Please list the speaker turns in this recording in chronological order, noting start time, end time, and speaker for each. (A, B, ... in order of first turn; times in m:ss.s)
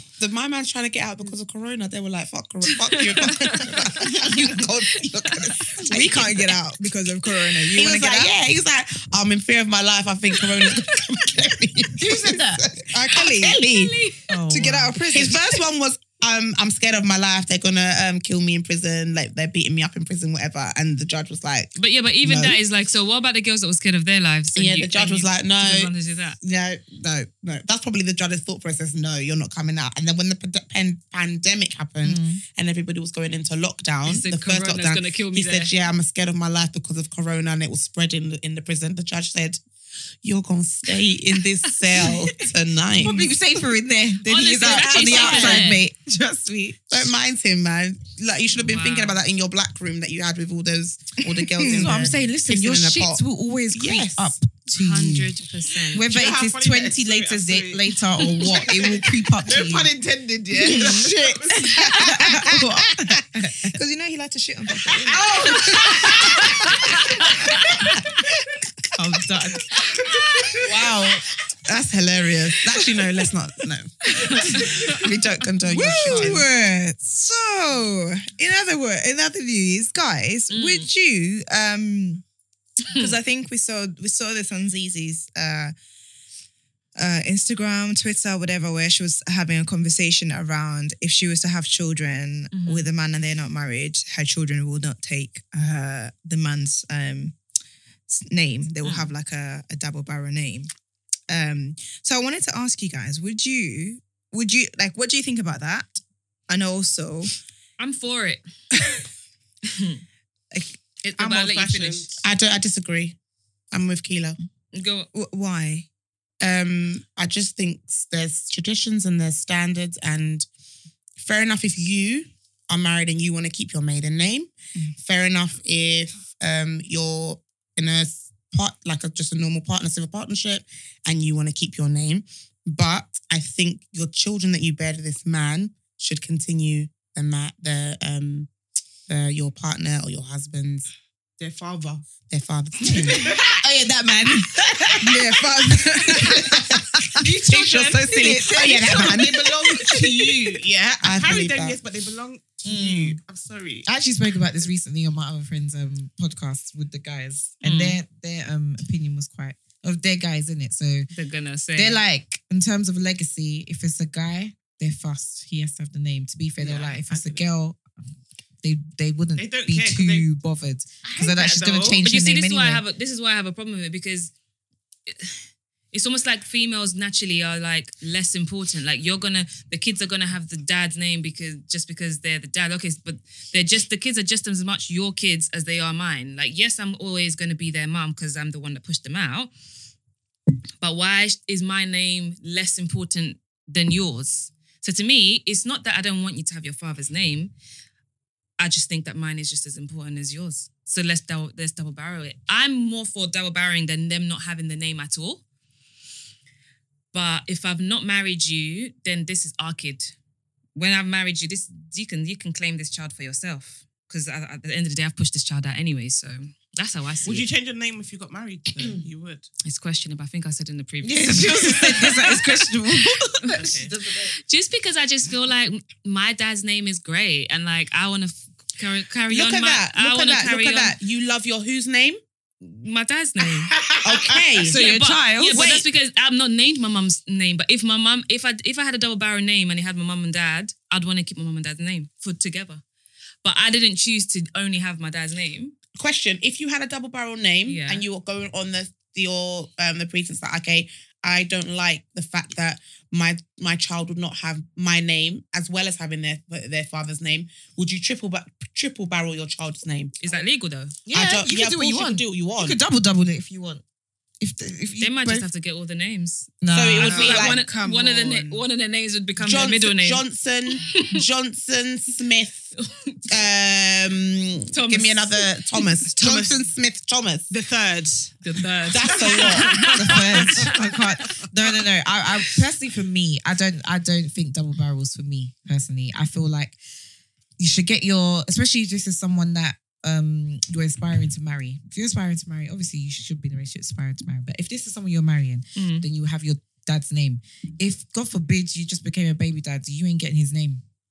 0:00.2-0:06.6 A
0:02.7-0:05.8 B
0:05.8-0:08.3 C
0:07.7-0:14.0 A
0:12.0-0:12.6 D
0:13.1-0:13.6 C
0:13.6-0:14.3 B
0:14.3-0:15.2 D
0:14.5-0:15.5 C
0:15.1-0:22.6 A
0:21.8-0:26.4 B
0:24.6-0:39.6 A
0:32.0-0:32.4 D
0:34.0-0:35.7 B
0:40.2-0:43.3 A
0:43.0-0:47.1 D
0:44.2-0:45.8 B
0:44.6-0:45.6 A
0:46.9-0:54.4 A
0:48.6-0:49.2 B
0:51.6-0:51.9 C
0:51.6-0:55.3 D
0:54.7-0:56.1 B
0:55.9-0:59.9 D
0:56.0-1:01.8 E
1:00.5-1:03.2 A
1:00.6-1:01.1 D
1:01.8-1:03.7 D
1:03.5-1:07.0 C
1:05.1-1:06.5 E
1:05.1-1:06.7 D
1:05.2-1:06.8 A
1:07.2-1:07.7 B
1:09.0-1:09.8 D
1:09.2-1:09.6 C
1:10.5-1:11.2 D
1:11.7-1:16.4 A
1:14.1-1:15.0 B
1:15.6-1:22.2 C
1:15.7-1:16.5 D
1:20.5-1:20.9 B
1:22.9-1:25.7 C
1:27.0-1:37.4 C
1:32.5-1:32.9 B
1:38.1-1:40.7 C
1:38.8-1:39.1 B
1:41.3-1:47.3 C
1:47.8-1:48.4 B
1:49.7-1:50.0 B
1:50.5-1:50.8 C
1:51.1-1:52.2 B
1:51.1-1:52.2 E
1:52.2-1:53.2 A
1:53.7-1:54.4 A
1:54.7-1:55.1 B
1:55.1-1:55.9 C
1:56.4-2:00.5 A
2:01.2-2:18.5 A
2:19.1-2:20.9 A
2:21.4-2:22.1 E
2:22.3-2:23.4 A
2:22.8-2:30.0 D
2:23.0-2:23.6 E
2:25.0-2:30.3 A
2:27.2-2:33.9 E
2:31.0-2:31.8 A
2:32.7-2:33.2 D
2:33.8-2:41.1 D
2:37.6-2:38.0 B
2:41.1-2:42.0 B
2:41.8-2:47.8 D
2:46.6-2:47.4 E
2:48.6-2:52.8 D
2:49.4-2:50.3 E
2:51.0-2:52.0 E
2:52.0-2:54.3 B
2:55.1-2:55.4 B
2:55.9-3:09.5 B
3:10.8-3:17.5 B
3:18.6-3:25.4 B
3:27.1-3:30.2 B
3:30.8-3:37.5 B
3:37.2-3:39.5 E
3:39.6-3:42.7 B
3:41.0-3:44.3 D
3:43.4-3:51.0 B
3:43.6-3:43.9 E
3:49.3-3:52.2 A
3:52.6-3:53.8 B
3:53.8-3:54.6 E
3:54.0-3:54.8 A
3:54.6-3:55.7 C
3:54.6-4:02.8 B
3:55.5-3:55.9 A
4:03.4-4:05.8 B
4:06.0-4:20.2 A
4:07.6-4:08.0 B
4:20.2-4:21.0 B
4:21.1-4:23.8 D
4:21.1-4:22.8 A
4:24.4-4:25.5 D
4:25.0-4:30.2 B
4:26.6-4:27.2 D
4:26.7-4:27.6 A
4:27.0-4:28.6 C
4:29.4-4:32.7 A
4:30.8-4:31.2 B
4:32.8-4:33.2 B
4:33.3-4:37.5 A
4:34.7-4:35.9 B
4:36.2-4:36.5 E
4:37.5-4:38.3 E
4:38.4-4:41.0 B
4:38.9-4:40.0 A
4:39.1-4:40.7 E
4:39.9-4:46.8 D
4:47.6-5:00.8 D
4:55.8-4:56.1 B